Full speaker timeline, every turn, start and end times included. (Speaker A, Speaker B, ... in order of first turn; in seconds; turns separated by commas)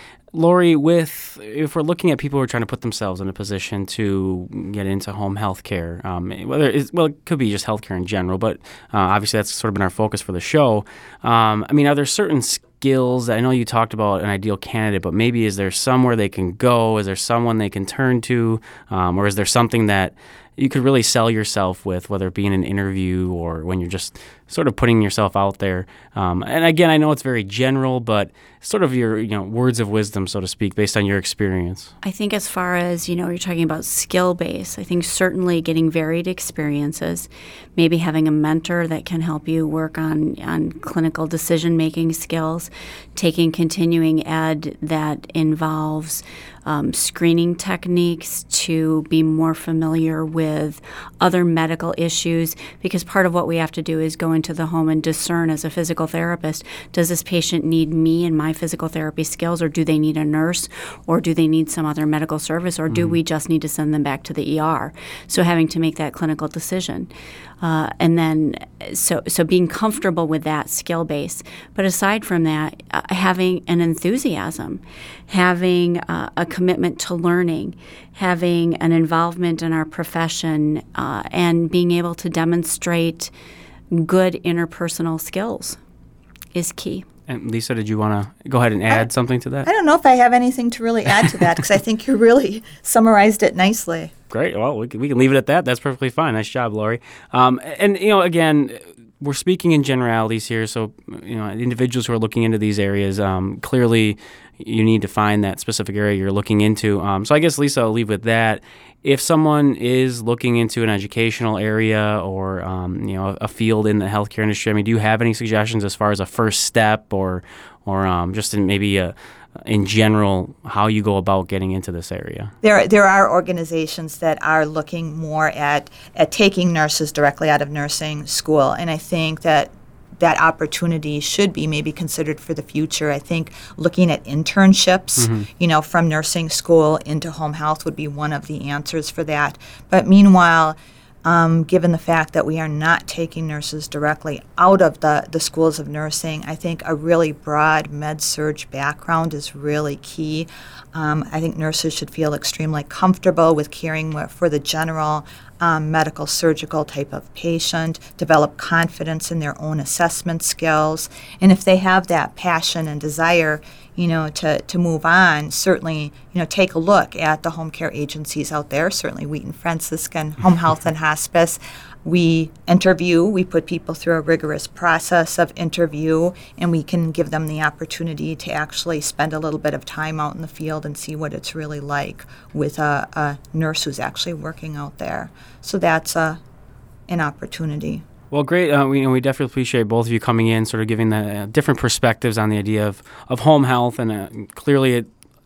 Speaker A: 0.3-31.9, Speaker B: 32.0-67.1, Speaker A: 62.9-63.2, Speaker B: 67.6-83.3, Speaker B: 83.9-85.8, Speaker B: 86.5-87.1, Speaker A: 87.3-89.7, Speaker C: 89.6-94.1, Speaker A: 94.3-122.5, Speaker C: 122.6-186.4, Speaker A: 135.2-135.5, Speaker C: 187.1-188.0, Speaker A: 188.3-195.1